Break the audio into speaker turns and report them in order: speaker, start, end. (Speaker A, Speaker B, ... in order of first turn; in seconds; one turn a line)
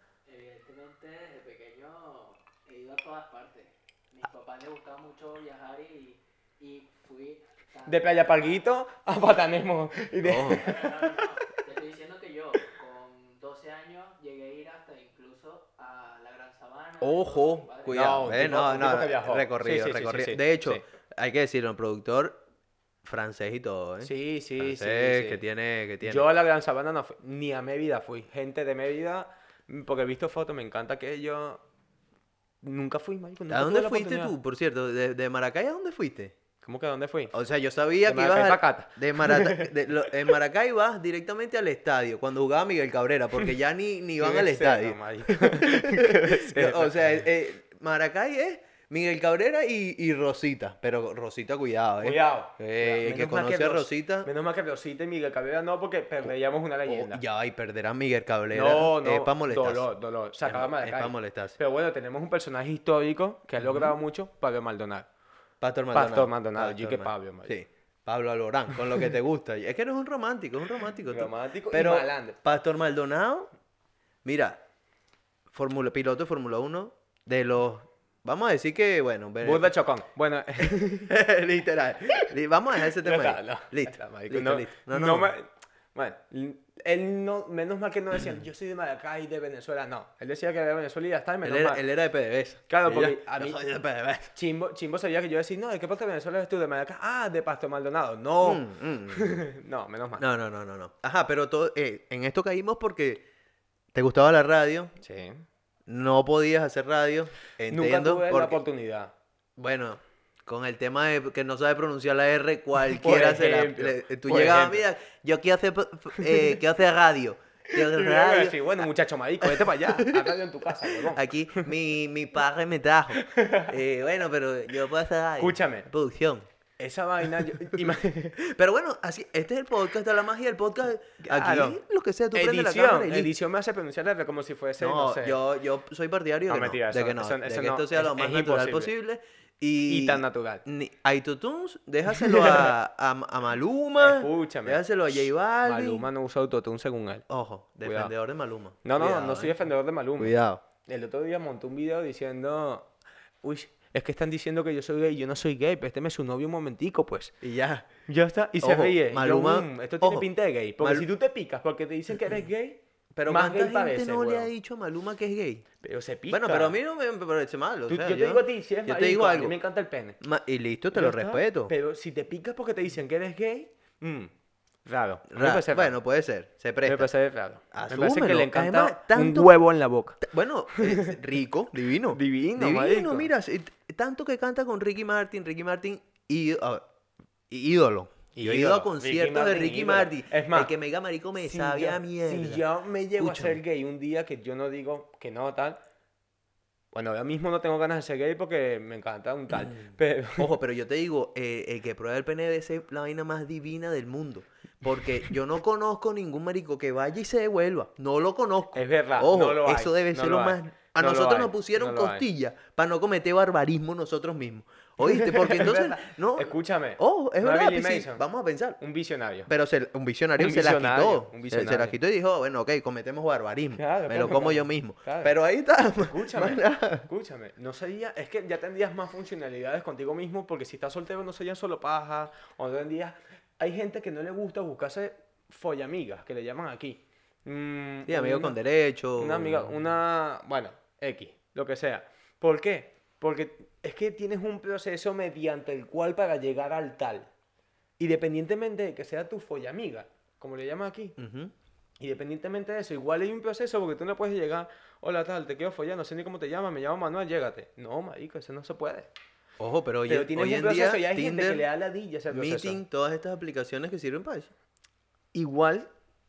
Speaker A: 0.3-8.7
Speaker B: 7.8-11.2
Speaker C: 10.2-10.7
Speaker A: 10.5-18.2
Speaker C: 17.0-22.4
Speaker B: 17.9-20.8
Speaker C: 23.0-26.3
Speaker B: 24.0-25.4
Speaker B: 26.0-31.6
Speaker B: 32.6-34.3
Speaker C: 33.5-36.4
Speaker B: 36.6-37.3
Speaker C: 37.3-54.3
Speaker B: 38.0-39.7
Speaker B: 44.2-47.0
Speaker B: 52.0-57.2
Speaker C: 56.9-59.9
Speaker B: 58.5-65.1
Speaker C: 60.4-61.6
Speaker C: 63.6-63.9
Speaker C: 65.6-73.5
Speaker B: 65.9-67.5
Speaker B: 71.1-72.4
Speaker C: 74.2-74.6
Speaker C: 75.5-79.7
Speaker B: 79.4-81.1
Speaker C: 80.6-85.3
Speaker B: 82.8-91.8
Speaker C: 91.4-94.3
Speaker B: 92.7-93.6
Speaker B: 94.3-100.2
Speaker C: 98.4-99.4
Speaker C: 100.2-103.2
Speaker C: 103.9-104.9
Speaker B: 105.0-105.4
Speaker C: 105.9-108.6
Speaker B: 107.7-109.1
Speaker C: 109.6-118.8
Speaker B: 112.9-114.8
Speaker B: 116.2-116.5
Speaker B: 117.7-121.7
Speaker C: 119.4-126.4
Speaker B: 123.2-123.7
Speaker B: 125.4-125.9
Speaker B: 126.8-128.4
Speaker C: 128.4-133.3
Speaker B: 131.2-131.8
Speaker B: 132.3-135.4
Speaker C: 134.8-146.0
Speaker B: 136.5-138.9
Speaker B: 139.9-140.6
Speaker B: 142.1-142.7
Speaker B: 144.0-147.2
Speaker C: 147.3-149.6
Speaker B: 147.8-148.1
Speaker B: 148.8-152.9
Speaker C: 150.2-150.6
Speaker B: 153.4-157.3
Speaker C: 157.4-157.9
Speaker B: 158.1-164.5
Speaker C: 158.6-160.3
Speaker C: 160.8-161.1
Speaker C: 163.1-165.6
Speaker B: 165.8-166.8
Speaker C: 166.3-169.6
Speaker B: 167.9-170.2
Speaker C: 170.2-171.7
Speaker B: 170.9-174.3
Speaker B: 174.8-175.9
Speaker C: 175.3-177.1
Speaker B: 176.8-180.2
Speaker C: 177.7-179.5
Speaker C: 180.2-186.8
Speaker B: 180.7-181.2
Speaker B: 182.1-183.3
Speaker C: 187.5-192.6
Speaker B: 188.3-190.7
Speaker B: 191.4-195.8
Speaker C: 193.2-193.6
Speaker B: 196.9-200.5
Speaker C: 200.4-218.8
Speaker B: 208.7-212.2
Speaker B: 215.0-218.2
Speaker B: 218.8-219.5
Speaker C: 219.5-227.1
Speaker B: 220.4-221.9
Speaker B: 223.7-225.3
Speaker B: 226.0-238.6
Speaker C: 238.1-239.8
Speaker B: 239.2-247.3
Speaker B: 248.0-251.2
Speaker C: 251.2-251.5
Speaker B: 252.0-259.1
Speaker C: 259.6-261.6
Speaker B: 260.1-262.8
Speaker C: 262.3-264.5
Speaker B: 265.3-265.9